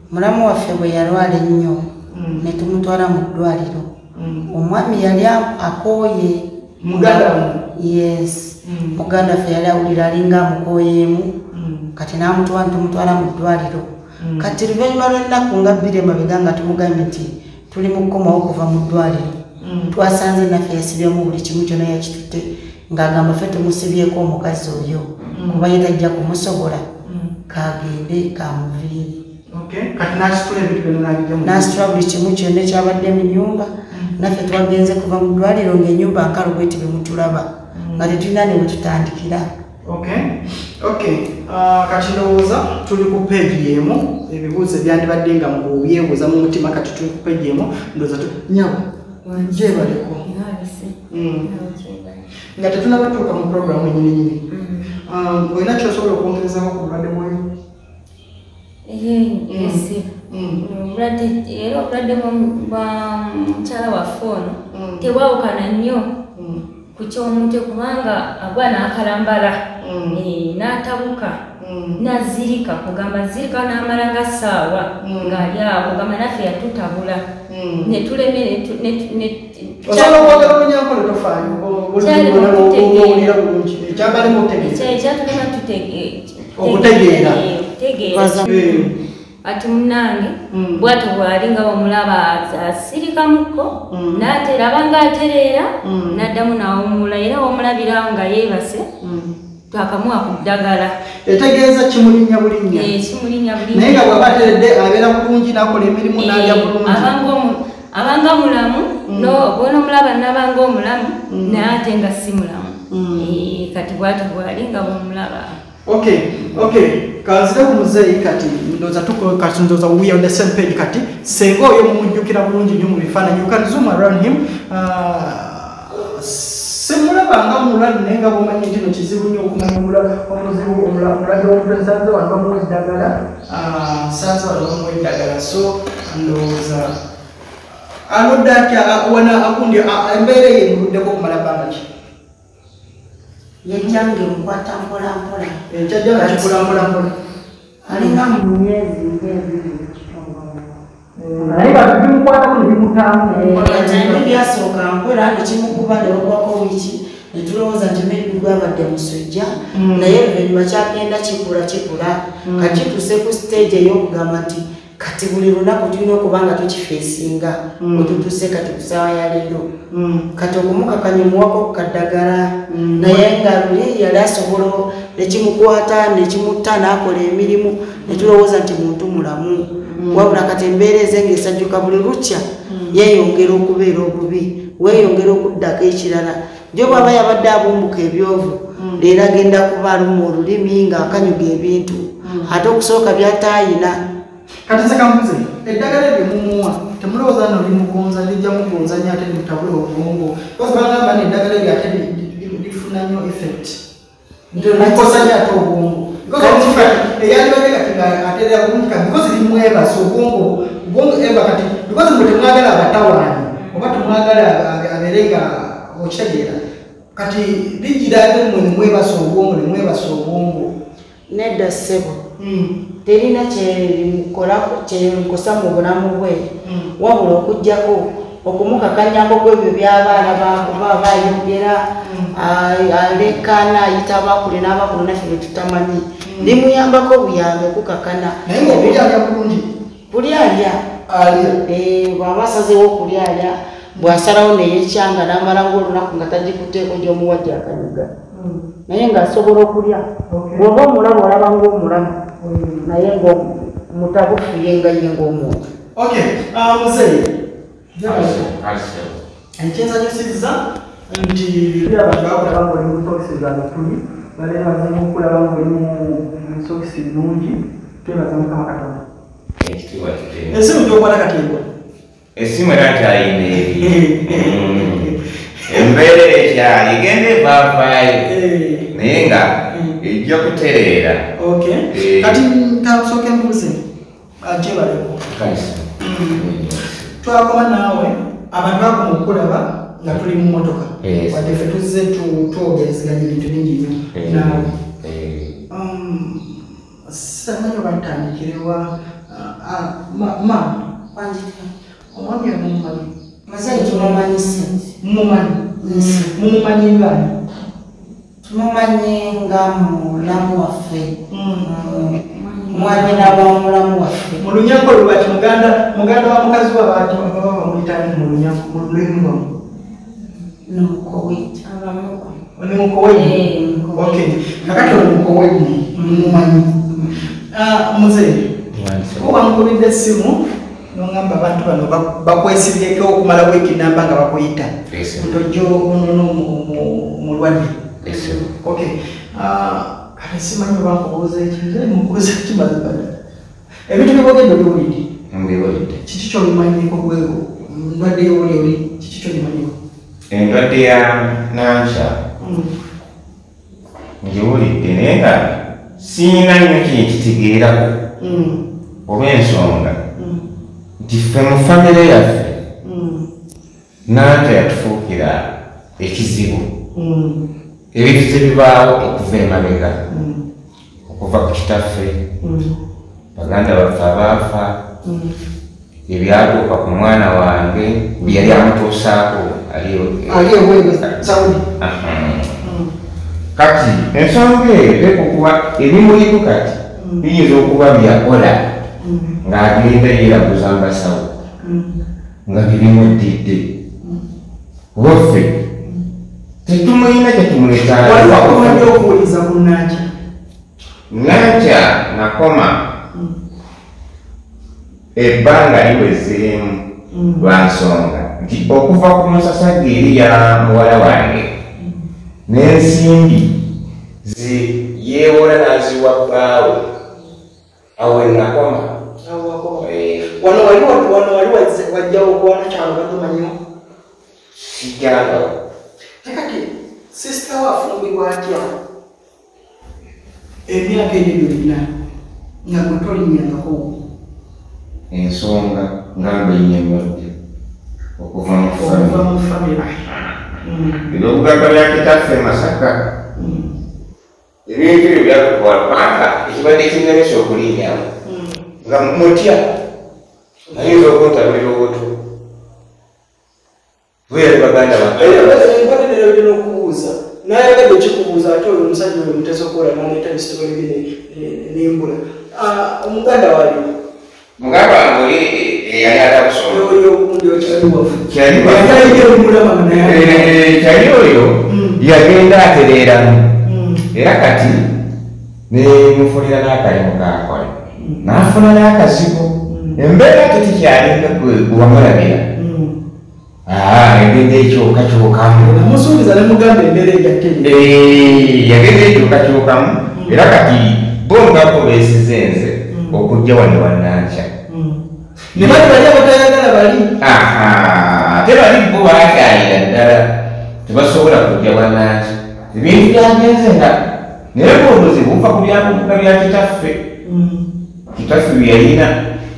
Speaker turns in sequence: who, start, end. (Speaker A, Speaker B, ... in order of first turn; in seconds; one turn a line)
Speaker A: 0.1-1.9
Speaker B: 2.1-2.5
Speaker A: 2.4-3.9
Speaker B: 4.2-4.5
Speaker A: 4.5-11.3
Speaker B: 6.8-7.6
Speaker B: 8.7-9.0
Speaker B: 11.5-11.9
Speaker A: 12.0-19.3
Speaker B: 14.2-14.5
Speaker B: 19.6-19.9
Speaker A: 19.9-26.8
Speaker B: 25.3-25.6
Speaker B: 27.1-27.3
Speaker A: 27.5-29.2
Speaker B: 29.5-31.8
Speaker A: 31.4-39.5
Speaker B: 37.8-38.1
Speaker B: 39.9-50.3
Speaker C: 49.3-52.3
Speaker B: 51.1-51.5
Speaker B: 52.6-54.4
Speaker C: 54.5-55.0
Speaker B: 55.0-57.4
Speaker C: 58.9-66.1
Speaker B: 59.5-60.6
Speaker B: 64.7-65.1
Speaker B: 66.3-66.6
Speaker C: 67.0-69.6
Speaker B: 69.8-70.2
Speaker C: 70.1-71.4
Speaker B: 71.6-72.0
Speaker C: 72.0-77.2
Speaker B: 75.0-75.5
Speaker B: 77.5-77.9
Speaker C: 77.8-80.6
Speaker B: 79.9-85.0
Speaker C: 82.0-83.3
Speaker C: 83.9-88.8
Speaker B: 86.6-87.4
Speaker A: 88.1-88.8
Speaker B: 88.5-88.9
Speaker C: 89.4-98.9
Speaker B: 90.5-90.9
Speaker B: 93.9-94.3
Speaker B: 95.8-96.3
Speaker B: 99.0-99.3
Speaker C: 99.7-100.9
Speaker B: 101.2-102.9
Speaker C: 102.7-104.4
Speaker B: 103.7-107.1
Speaker C: 106.2-115.6
Speaker B: 109.1-109.4
Speaker B: 111.3-111.7
Speaker B: 112.9-113.3
Speaker B: 115.9-137.0
Speaker B: 138.1-141.9
Speaker A: 143.7-145.6
Speaker B: 145.7-147.1
Speaker A: 146.1-146.9
Speaker A: 147.9-150.8
Speaker B: 147.9-148.2
Speaker B: 151.2-154.3
Speaker A: 153.4-169.7
Speaker C: 153.4-154.2
Speaker B: 155.7-156.1
Speaker B: 159.7-160.2
Speaker B: 162.4-162.8
Speaker B: 167.8-168.2
Speaker B: 169.9-170.3
Speaker A: 170.4-194.0
Speaker B: 172.7-173.3
Speaker B: 179.9-180.4
Speaker B: 182.7-183.0
Speaker B: 188.8-189.0
Speaker B: 192.2-192.6
Speaker B: 194.7-203.8
Speaker B: 204.5-216.6
Speaker A: 204.6-205.3
Speaker A: 206.4-207.0
Speaker C: 213.6-214.1
Speaker B: 217.2-220.7
Speaker A: 221.3-222.2
Speaker B: 222.4-222.7
Speaker A: 223.1-231.8
Speaker B: 226.6-226.9
Speaker B: 232.0-232.3
Speaker A: 232.3-239.1
Speaker B: 236.2-236.6
Speaker B: 238.5-239.7
Speaker A: 240.1-240.8
Speaker B: 241.1-241.6
Speaker A: 241.3-248.1
Speaker B: 243.9-244.2
Speaker B: 248.3-248.7
Speaker A: 248.9-250.1
Speaker B: 250.3-250.6
Speaker A: 250.6-252.2
Speaker B: 252.4-252.9
Speaker A: 252.8-255.6
Speaker B: 256.0-257.3
Speaker B: 257.9-258.5
Speaker D: 258.1-259.2
Speaker B: 259.6-269.1
Speaker D: 269.6-270.7
Speaker B: 270.5-271.6
Speaker D: 272.4-275.1
Speaker B: 273.5-276.0
Speaker D: 275.7-278.3
Speaker B: 278.2-278.9
Speaker D: 278.9-281.3
Speaker B: 279.7-280.0
Speaker B: 281.4-283.8
Speaker D: 281.9-282.4
Speaker B: 284.4-285.2
Speaker D: 285.3-287.1
Speaker B: 286.0-286.4
Speaker B: 287.2-294.7
Speaker D: 291.0-291.4
Speaker D: 294.1-295.6
Speaker B: 295.7-300.9
Speaker A: 301.1-301.7
Speaker B: 302.1-304.4
Speaker A: 303.5-304.8
Speaker B: 305.0-307.3
Speaker A: 305.8-306.3
Speaker A: 308.4-314.4
Speaker B: 311.3-311.7
Speaker C: 312.6-313.1
Speaker B: 312.7-313.4
Speaker B: 314.4-319.5
Speaker A: 320.7-321.6
Speaker C: 321.6-322.3
Speaker B: 322.6-328.5
Speaker C: 323.1-325.0
Speaker D: 328.7-329.4
Speaker B: 329.2-337.8
Speaker D: 334.9-335.4
Speaker D: 338.0-338.5
Speaker B: 338.6-343.1
Speaker B: 343.9-345.0
Speaker D: 345.3-346.0
Speaker B: 346.1-349.7
Speaker D: 350.3-352.2
Speaker B: 352.4-352.8
Speaker D: 354.2-358.0
Speaker B: 358.2-358.6
Speaker D: 359.1-360.0
Speaker B: 360.2-360.4
Speaker D: 361.0-362.6
Speaker B: 362.8-363.3
Speaker D: 364.1-365.5
Speaker D: 366.0-366.7
Speaker B: 366.9-367.4
Speaker D: 367.9-370.0
Speaker B: 370.1-370.4
Speaker D: 371.1-372.2
Speaker B: 372.4-372.7
Speaker D: 373.4-374.7
Speaker B: 375.0-375.4
Speaker D: 376.1-382.6
Speaker B: 378.2-378.6
Speaker B: 380.3-381.6
Speaker B: 382.6-382.9
Speaker D: 383.6-388.6
Speaker B: 387.0-387.3
Speaker B: 389.0-389.4
Speaker D: 389.4-391.3
Speaker B: 391.6-391.9
Speaker D: 392.5-393.7
Speaker D: 394.9-395.6
Speaker D: 396.7-399.0
Speaker B: 398.0-400.1
Speaker D: 401.1-402.8
Speaker D: 405.2-406.8
Speaker B: 407.1-407.5
Speaker D: 407.4-411.5
Speaker D: 412.5-413.5
Speaker D: 414.2-416.8
Speaker D: 418.0-419.0
Speaker B: 419.2-423.6
Speaker D: 419.8-420.4
Speaker D: 424.6-425.5
Speaker B: 426.2-428.7
Speaker B: 430.7-431.9
Speaker B: 432.7-434.0
Speaker D: 435.1-437.3
Speaker D: 438.2-439.2
Speaker B: 438.7-439.9
Speaker B: 440.6-441.1
Speaker D: 441.1-443.0
Speaker B: 443.4-443.7
Speaker D: 444.7-448.1
Speaker B: 448.2-448.6
Speaker D: 448.8-449.6
Speaker B: 450.7-451.1
Speaker D: 450.8-452.1
Speaker D: 454.3-455.6
Speaker B: 455.1-463.9
Speaker D: 464.6-466.9
Speaker B: 466.7-470.6
Speaker D: 468.3-469.3
Speaker D: 469.9-473.5
Speaker B: 471.7-472.0
Speaker B: 473.6-474.0
Speaker D: 474.1-474.8
Speaker D: 475.7-482.4
Speaker B: 478.0-478.5
Speaker B: 479.7-480.0
Speaker B: 482.6-482.9
Speaker D: 483.7-485.8
Speaker B: 485.6-487.8
Speaker D: 487.6-494.5
Speaker B: 490.1-490.4
Speaker B: 492.9-493.2
Speaker B: 494.7-495.0
Speaker B: 495.5-497.1
Speaker D: 495.6-496.0
Speaker D: 497.2-500.3
Speaker D: 500.9-504.0
Speaker D: 504.5-507.0
Speaker B: 507.2-507.6
Speaker D: 508.1-509.1